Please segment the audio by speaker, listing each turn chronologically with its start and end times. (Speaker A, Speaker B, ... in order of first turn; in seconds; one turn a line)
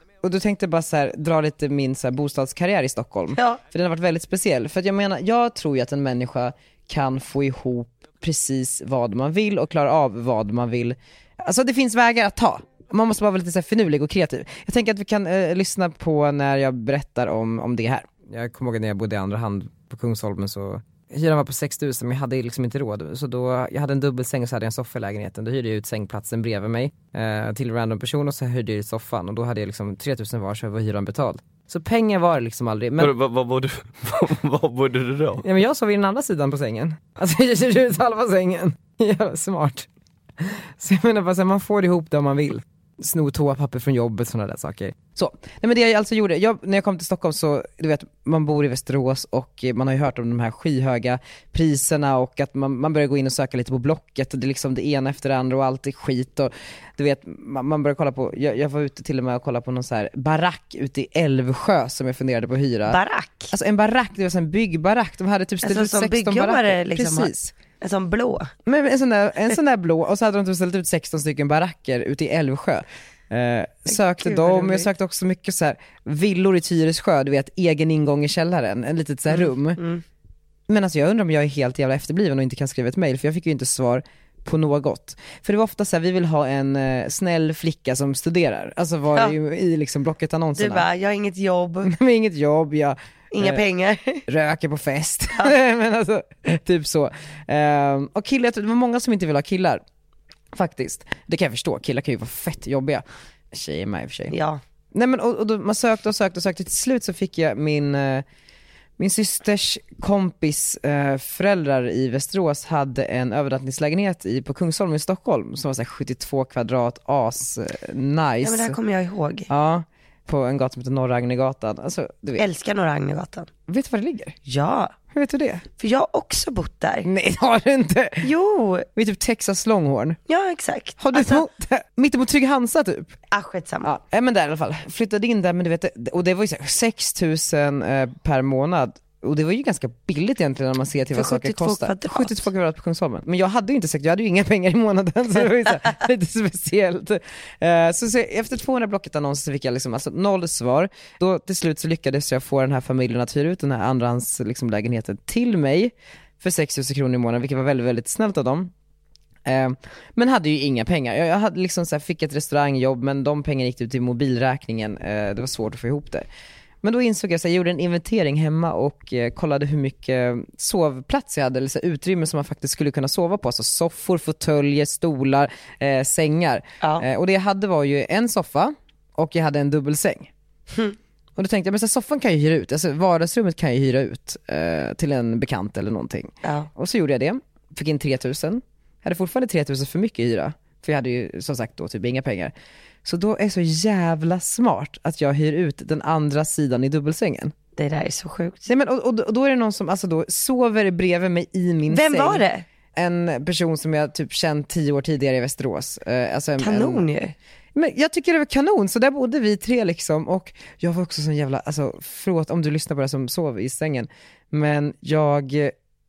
Speaker A: 0.2-33.1
Speaker B: 3.3-3.6
Speaker C: 33.0-35.4
Speaker A: 35.4-39.9
Speaker A: 40.4-63.0
Speaker B: 62.9-63.5
Speaker A: 63.5-67.5
Speaker B: 65.6-68.5
Speaker A: 68.7-79.8
Speaker B: 73.9-74.9
Speaker B: 79.3-80.0
Speaker A: 80.7-90.9
Speaker B: 90.6-91.9
Speaker A: 91.8-93.6
Speaker B: 93.3-94.2
Speaker A: 94.3-99.8
Speaker A: 100.5-104.3
Speaker B: 104.3-104.6
Speaker A: 104.9-108.2
Speaker A: 109.0-118.8
Speaker B: 118.4-119.5
Speaker A: 119.5-122.4
Speaker B: 122.4-123.5
Speaker A: 123.7-124.3
Speaker B: 124.4-124.9
Speaker A: 125.1-125.6
Speaker B: 125.8-127.1
Speaker A: 127.0-128.3
Speaker B: 128.2-128.9
Speaker A: 128.9-130.2
Speaker B: 130.3-131.4
Speaker A: 131.0-133.2
Speaker B: 133.3-133.9
Speaker A: 133.8-158.7
Speaker B: 141.1-142.4
Speaker A: 159.4-166.2
Speaker A: 166.8-180.3
Speaker A: 181.3-192.5
Speaker B: 186.4-186.7
Speaker A: 193.0-197.5
Speaker B: 197.8-198.7
Speaker A: 198.7-202.4
Speaker B: 201.9-202.6
Speaker A: 202.9-207.1
Speaker B: 206.6-207.3
Speaker A: 207.7-215.7